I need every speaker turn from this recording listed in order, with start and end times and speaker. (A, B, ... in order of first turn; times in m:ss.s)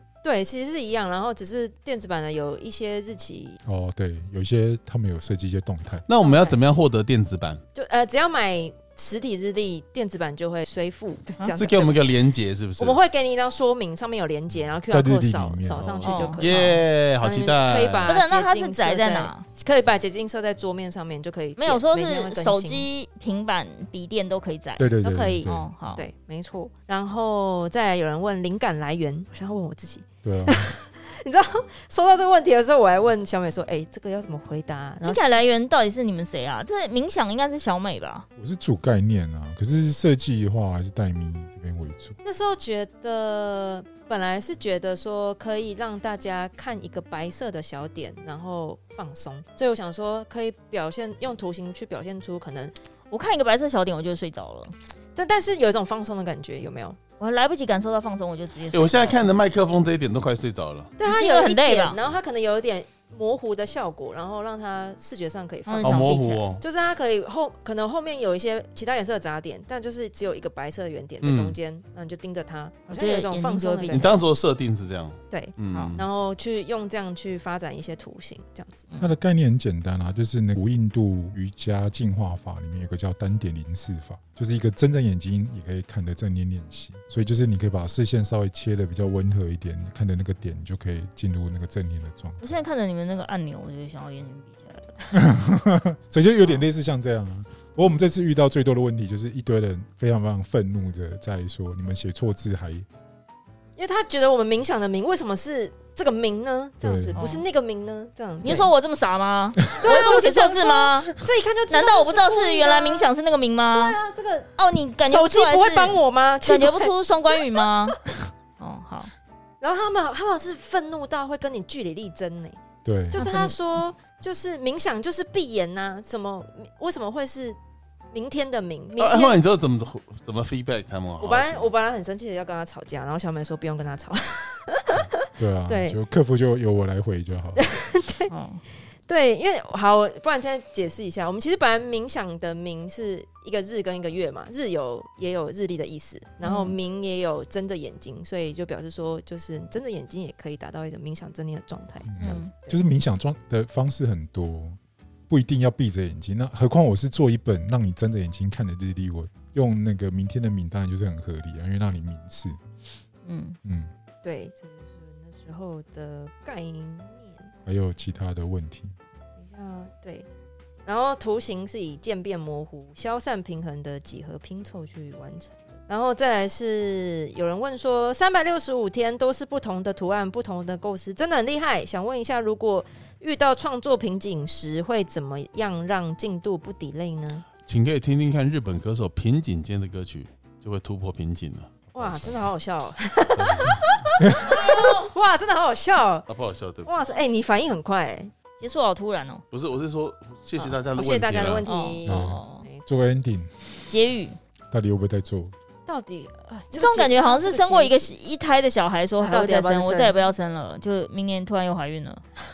0:00.2-0:03.6 A
0:03.6-0:06.1 B
0:06.1-0:07.6 C
0:06.2-0:06.6 A
0:07.8-0:12.1 A
0:11.5-0:13.0 C
0:12.8-0:22.9 A
0:14.9-0:16.0 B
0:16.0-0:18.1 C
0:16.0-0:16.4 D
0:18.1-0:19.4 D
0:21.6-0:24.9 D
0:24.8-0:25.7 B
0:25.0-0:35.3 A
0:25.4-0:26.0 D
0:30.2-0:30.7 B
0:35.0-0:38.3 D
0:38.4-0:42.2 B
0:42.2-0:52.7 A
0:53.1-0:54.7 D
0:55.2-0:57.0 A
0:57.2-0:59.2 D
0:58.7-1:00.9 C
1:01.0-1:14.2 A
1:01.0-1:02.0 D
1:05.6-1:06.4 D
1:05.8-1:06.6 C
1:11.2-1:11.6 C
1:12.9-1:14.1 D
1:13.9-1:16.1 C
1:15.3-1:18.9 A
1:15.7-1:16.0 D
1:18.9-1:19.2 D
1:19.0-1:32.5 B
1:32.4-1:35.2 D
1:35.1-1:42.9 B
1:43.8-1:48.7 A
1:46.8-1:47.2 B
1:47.2-1:47.4 D
1:48.4-1:51.2 D
1:49.8-1:53.1 A
1:51.7-1:54.0 D
1:53.7-1:54.5 A
1:54.6-1:58.0 D
1:55.0-1:57.6 A
1:58.6-1:59.1 D
1:59.6-2:02.6 A
2:02.8-2:03.2 B
2:03.1-2:03.8 D
2:03.1-2:07.6 A
2:08.1-2:09.4 A
2:09.0-2:11.7 C
2:11.2-2:16.0 A
2:15.4-2:17.7 B
2:17.6-2:18.3 A
2:18.3-2:18.6 D
2:19.1-2:32.8 A
2:26.4-2:26.8 D
2:32.1-2:34.8 B
2:32.2-2:32.5 D
2:35.3-2:42.6 B
2:43.2-2:43.6 D
2:43.6-2:43.9 B
2:44.2-2:47.5 A
2:47.7-2:49.0 B
2:49.4-2:50.3 A
2:50.9-3:07.4 A
3:07.7-3:12.4 C
3:12.0-3:16.3 A
3:13.4-3:13.9 C
3:14.5-3:15.1 D
3:16.3-3:17.2 C
3:16.8-3:18.3 A
3:18.6-3:19.4 D
3:19.5-3:21.7 C
3:20.6-3:22.8 A
3:21.6-3:22.7 D
3:22.1-3:23.5 B
3:23.9-3:24.4 D
3:24.7-3:25.5 B
3:25.9-3:28.1 A
3:26.7-3:32.2 D
3:29.2-3:30.2 A